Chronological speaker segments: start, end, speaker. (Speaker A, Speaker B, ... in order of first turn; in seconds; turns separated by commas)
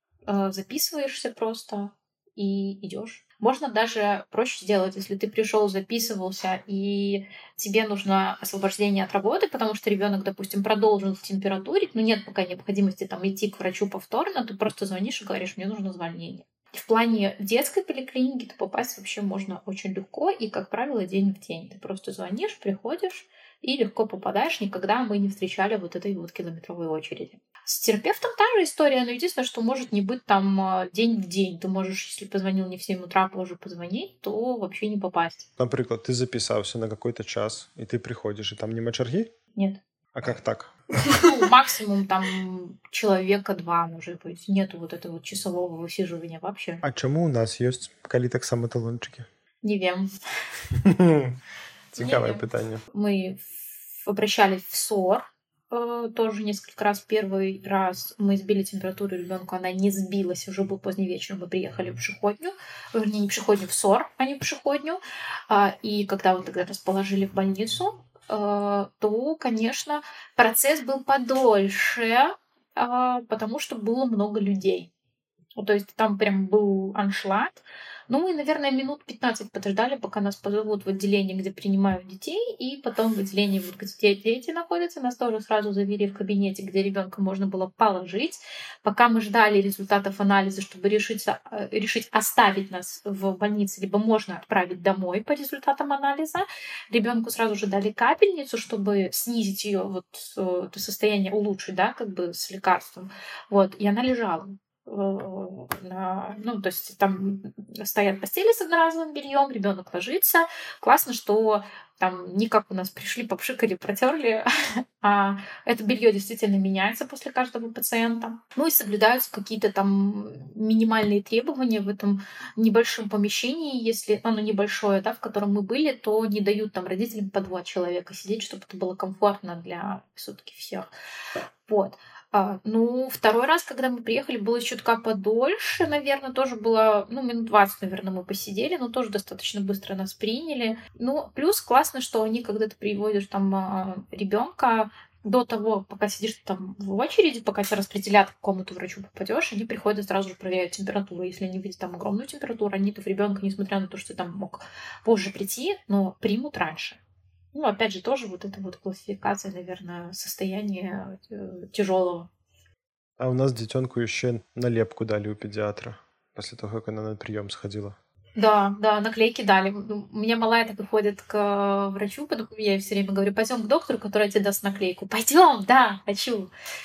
Speaker A: 0.3-35.5, Speaker B: 35.6-39.3, Speaker A: 39.5-39.8, Speaker B: 40.1-40.7, Speaker A: 41.1-46.8, Speaker B: 46.8-49.3, Speaker A: 49.6-50.1, Speaker B: 50.7-51.4, Speaker B: 51.9-52.8, Speaker A: 51.9-74.9, Speaker A: 75.5-114.5, Speaker A: 115.0-130.9, Speaker A: 131.7-157.0, Speaker A: 157.5-162.3, Speaker B: 163.2-168.0, Speaker A: 168.4-176.5